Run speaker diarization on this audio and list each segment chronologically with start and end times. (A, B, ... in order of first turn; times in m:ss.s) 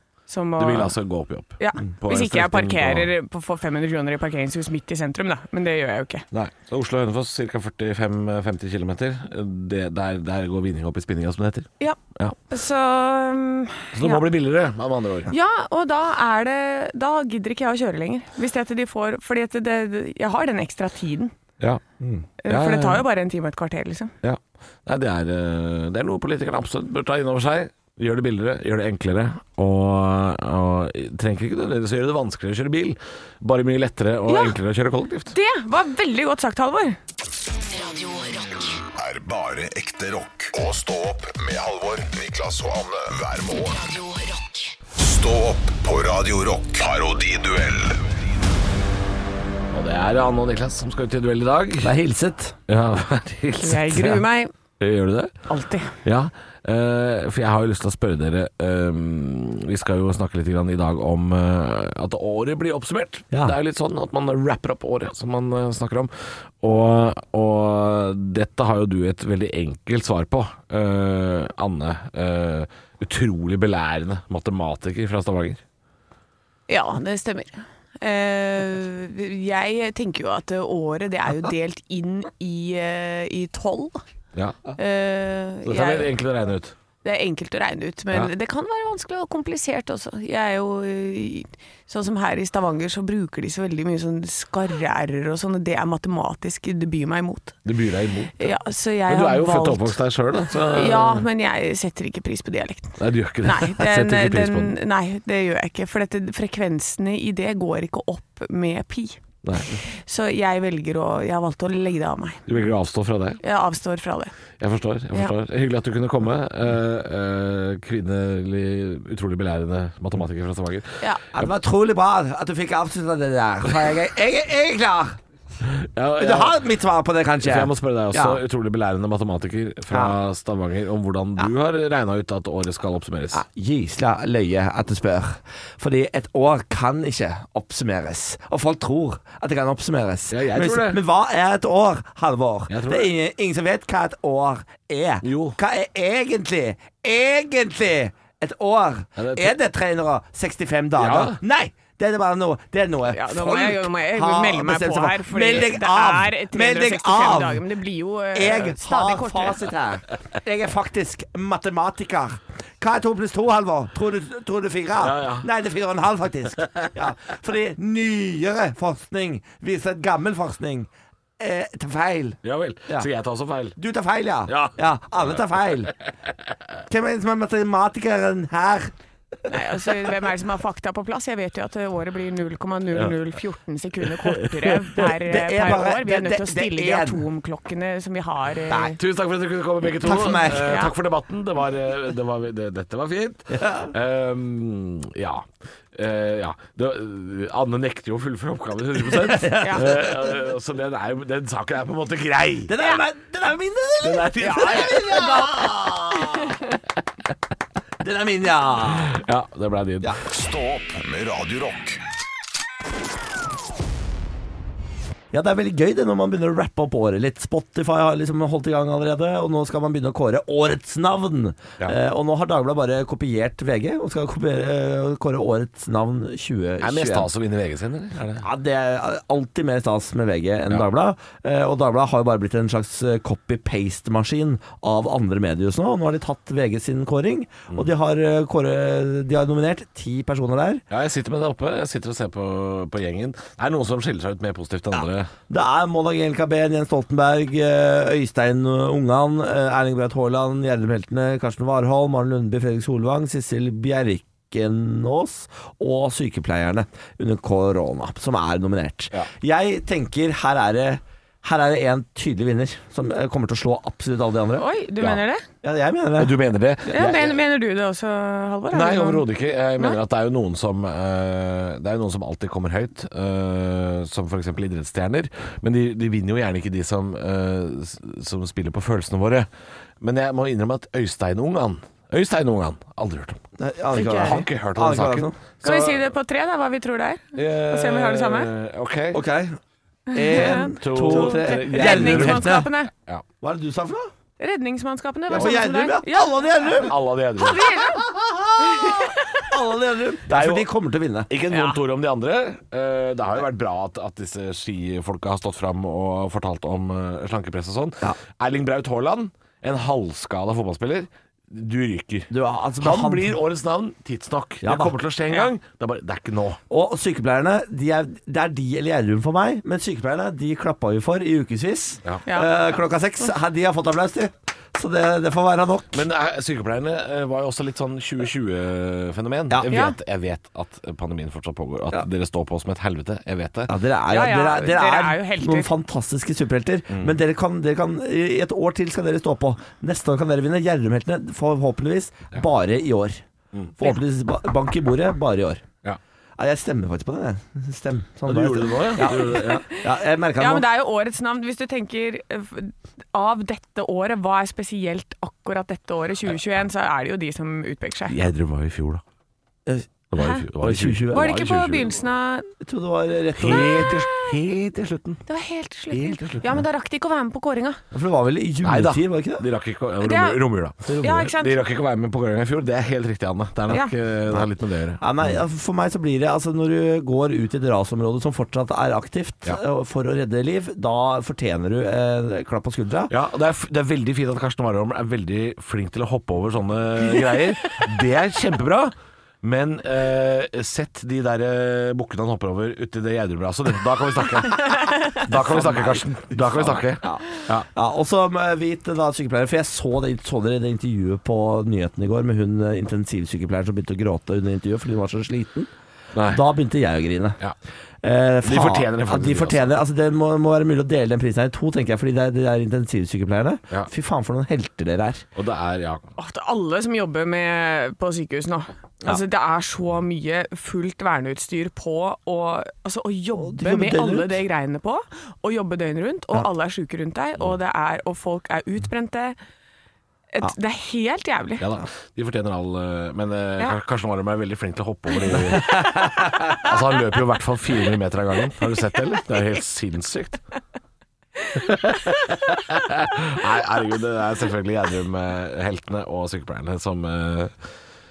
0:00.3-0:01.0 A
0:00.6-0:03.1 B
0:01.6-0:06.2 A
0:06.3-0:12.3 B
0:11.8-0:14.2 A
0:13.9-0:15.3 B
0:15.3-0:21.3 A
0:21.6-0:23.0 B
0:22.4-0:24.1 A
0:24.2-0:35.3 B
0:34.3-0:34.6 A
0:35.3-0:37.0 A
0:37.6-0:38.8 C
0:39.0-0:43.9 D
0:43.7-0:44.8 C
0:44.9-0:48.0 D
0:49.7-0:51.9 B
0:51.8-0:52.6 E
0:52.7-0:54.2 B
0:53.6-0:54.5 A
0:54.8-0:55.4 B
0:55.5-0:55.9 A
0:56.0-1:15.6 B
1:16.7-1:24.0 A
1:24.3-1:24.6 B
1:24.7-1:26.1 A
1:25.6-1:26.7 B
1:27.0-1:37.6 A
1:37.6-1:38.5 B
1:38.4-1:40.0 A
1:39.1-1:41.2 B
1:40.5-1:52.4 A
1:43.0-1:44.8 B
1:49.4-1:49.7 B
1:52.5-1:53.4 B
1:53.4-1:54.3 A
1:54.6-2:01.5 B
2:01.3-2:05.2 E
2:05.7-2:06.6 B
2:06.2-2:08.4 E
2:07.4-2:13.4 B
2:13.3-2:37.6 E
2:20.3-2:21.0 B
2:22.7-2:23.1 B
2:25.2-2:25.6 B
2:29.2-2:29.5 B
2:31.0-2:31.4 B
2:33.1-2:39.6 A
2:38.3-2:53.1 E
2:45.0-2:45.5 B
2:46.6-2:46.9 B
2:52.4-2:53.8 B
2:53.8-2:55.9 E
2:54.5-2:54.8 B
2:56.9-2:58.9 E
2:59.5-3:09.0 A
3:05.0-3:07.2 E
3:09.0-3:22.7 B
3:10.0-3:10.8 E
3:10.6-3:10.9 A
3:13.5-3:13.9 E
3:19.0-3:20.4 E
3:19.6-3:19.8 A
3:22.7-3:26.6 E
3:24.0-3:25.4 B
3:24.4-3:25.5 A
3:26.2-3:26.7 A
3:28.0-3:29.2 E
3:29.0-3:30.2 B
3:30.2-3:32.0 D
3:35.3-3:47.3 E
3:46.8-3:48.4 B
3:48.4-4:00.8 E
4:00.9-4:05.3 B
4:05.5-4:24.7 E
4:24.6-4:25.4 A
4:25.6-4:26.4 E
4:26.2-4:27.4 B
4:26.9-4:29.2 A
4:28.7-4:39.5 B
4:40.0-4:43.4 B
4:43.6-4:45.4 E
4:43.9-4:44.4 A
4:44.1-4:46.0 B
4:45.6-4:48.5 A
4:47.3-4:49.2 B
4:49.1-4:49.6 E
4:50.1-4:52.9 A
4:50.1-4:52.7 E
4:50.8-4:53.2 B
4:53.4-4:54.1 E
4:54.4-4:58.1 A
4:55.3-4:57.0 E
4:56.8-4:57.7 B
4:57.8-5:01.3 E
4:58.6-4:59.5 A
5:00.3-5:00.7 B
5:01.3-5:16.6 B
5:01.5-5:01.8 A
5:12.3-5:13.4 E
5:14.6-5:15.0 E
5:16.7-5:26.0 E
5:22.2-5:22.5 A
5:25.9-5:33.7 B
5:29.7-5:30.0 A
5:33.7-5:43.2 E
5:34.1-5:35.7 A
5:36.9-5:37.2 B
5:43.8-5:45.6 E
5:46.4-5:50.6 E
5:48.3-5:49.6 B
5:49.0-5:49.9 A
5:50.4-5:58.2 A
5:58.1-5:59.0 B
6:00.1-6:01.9 B
6:00.2-6:00.4 A
6:00.6-6:01.5 E
6:01.1-6:02.5 A
6:02.6-6:03.8 E
6:03.4-6:05.2 B
6:03.4-6:04.4 A
6:05.2-6:07.8 A
6:05.9-6:06.5 B
6:07.9-6:09.4 E
6:08.6-6:15.4 B
6:10.0-6:10.4 A
6:10.8-6:11.2 E
6:11.0-6:11.6 A
6:15.0-6:23.1 E
6:23.1-6:37.7 B
6:35.3-6:45.7 E
6:46.1-6:46.4 B
6:46.2-6:47.4 E
6:48.0-6:55.2 E
6:48.4-6:49.7 B
6:55.4-6:56.1 B
6:56.2-7:09.4 A
7:03.4-7:04.4 E
7:10.3-7:11.6 A
7:11.6-7:20.4 B
7:15.8-7:16.7 A
7:21.4-7:22.2 A
7:21.6-7:27.5 B